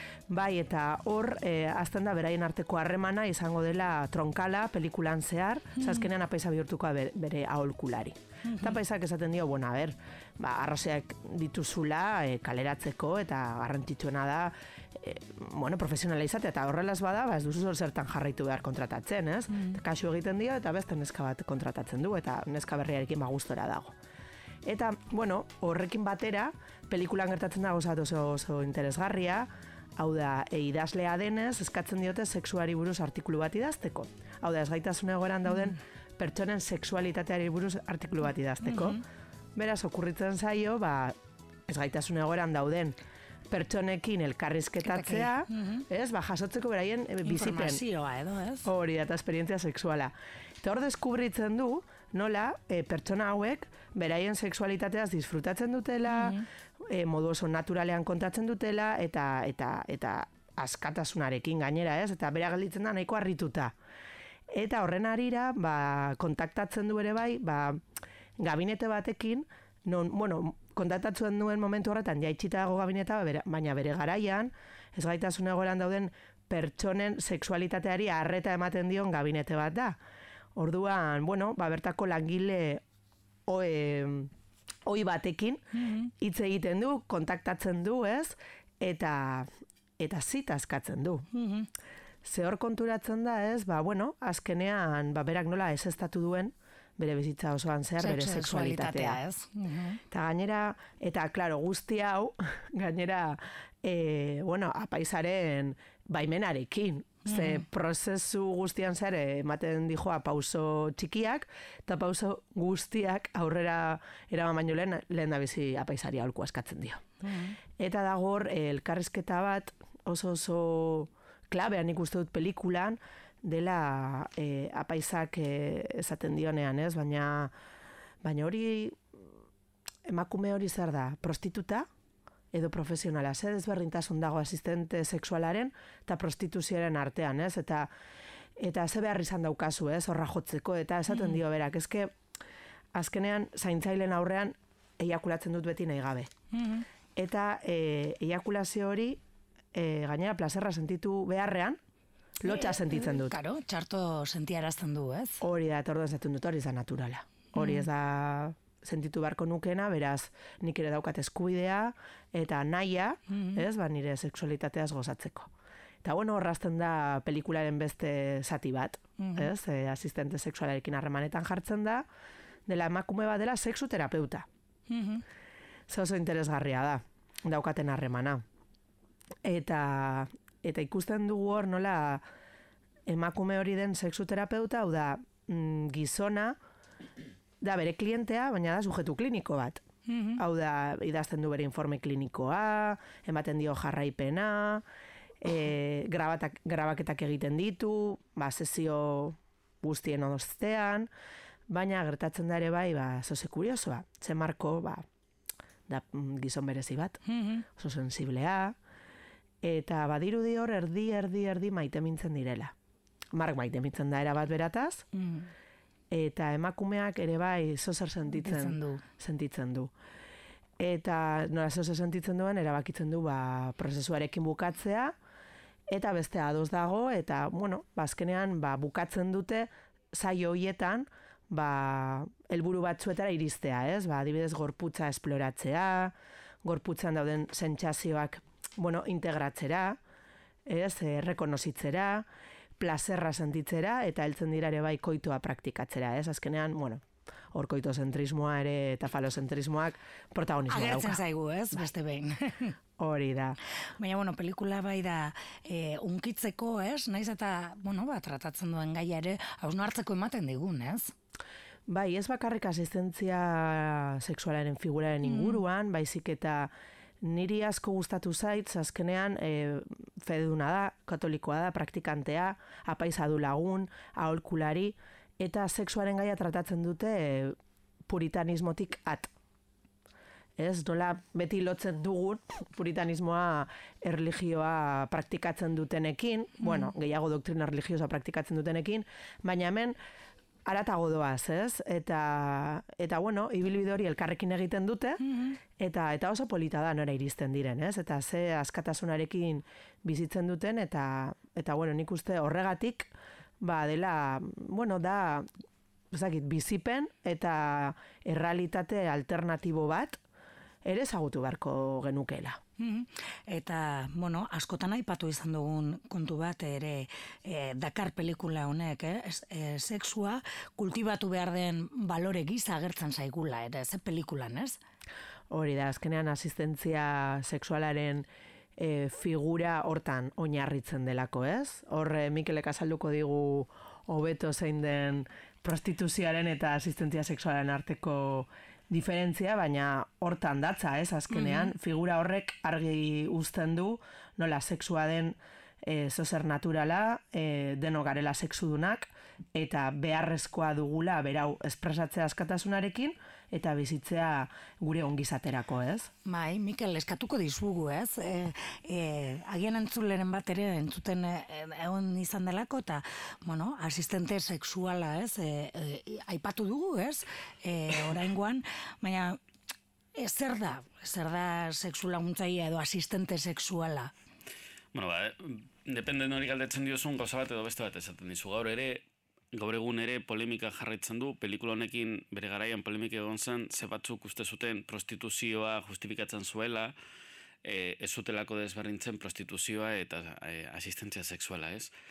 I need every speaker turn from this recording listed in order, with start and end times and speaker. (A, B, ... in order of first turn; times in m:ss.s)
0:00.3-0:23.9 A
0:05.8-0:06.1 B
0:08.4-0:08.8 B
0:19.5-0:19.8 B
0:24.6-0:39.0 A
0:38.6-0:39.0 B
0:39.6-0:41.2 A
0:41.7-0:43.0 A
0:43.5-0:47.8 A
0:44.8-0:45.9 B
0:47.2-0:48.7 B
0:48.6-1:03.8 A
0:56.1-0:56.4 B
1:04.5-1:07.8 A
1:08.4-1:20.0 A
1:20.6-1:22.8 A
1:23.5-1:24.3 A
1:24.9-1:31.3 A
1:25.7-1:26.1 B
1:31.3-1:31.7 B
1:32.2-1:39.2 A
1:38.0-1:40.0 B
1:40.1-1:57.1 A
1:47.2-1:47.6 B
1:57.2-1:57.6 B
1:57.8-2:07.5 A
2:08.2-2:09.2 A
2:10.0-2:11.9 A
2:12.5-2:17.9 A
2:18.6-2:22.2 A
2:21.1-2:21.4 B
2:22.9-2:26.3 A
2:26.5-2:26.9 B
2:27.1-2:29.2 A
2:29.7-2:31.8 A
2:32.4-2:33.4 A
2:32.4-2:35.4 B
2:35.4-2:45.5 A
2:37.6-2:37.9 B
2:43.3-2:43.6 B
2:46.0-2:52.1 A
2:49.2-2:49.5 B
2:52.7-2:54.5 A
2:54.9-2:55.2 B
2:55.9-2:58.4 A
2:59.4-3:02.2 A
3:03.1-3:06.6 A
3:07.6-3:09.8 A
3:10.1-3:10.4 B
3:10.4-3:14.8 A
3:15.4-3:21.1 A
3:21.7-3:25.0 A
3:25.9-3:27.2 A
3:27.2-3:27.6 B
3:27.7-3:28.8 A
3:29.6-3:32.7 A
3:33.3-3:35.0 A
3:35.1-3:35.5 B
3:36.1-3:39.9 A
3:38.3-3:39.0 B
3:40.8-3:45.1 A
3:45.9-4:00.0 A
4:00.6-4:02.3 A
4:02.8-4:11.2 A
4:10.7-4:12.8 B
4:13.0-4:13.6 A
4:14.0-4:21.1 B
4:21.9-4:37.6 A
4:25.2-4:25.6 B
4:38.1-4:39.3 A
4:40.6-4:50.0 A
4:46.6-4:46.9 B
4:50.6-4:55.2 A
4:55.2-4:55.6 B
4:55.8-5:05.5 A
5:06.1-5:10.2 A
5:10.8-5:12.6 A
5:12.8-5:24.8 B
5:25.5-5:56.1 A
5:41.3-5:41.7 B
5:56.2-6:09.4 B
6:10.1-6:14.1 B
6:14.9-6:27.0 C
6:27.6-6:31.9 C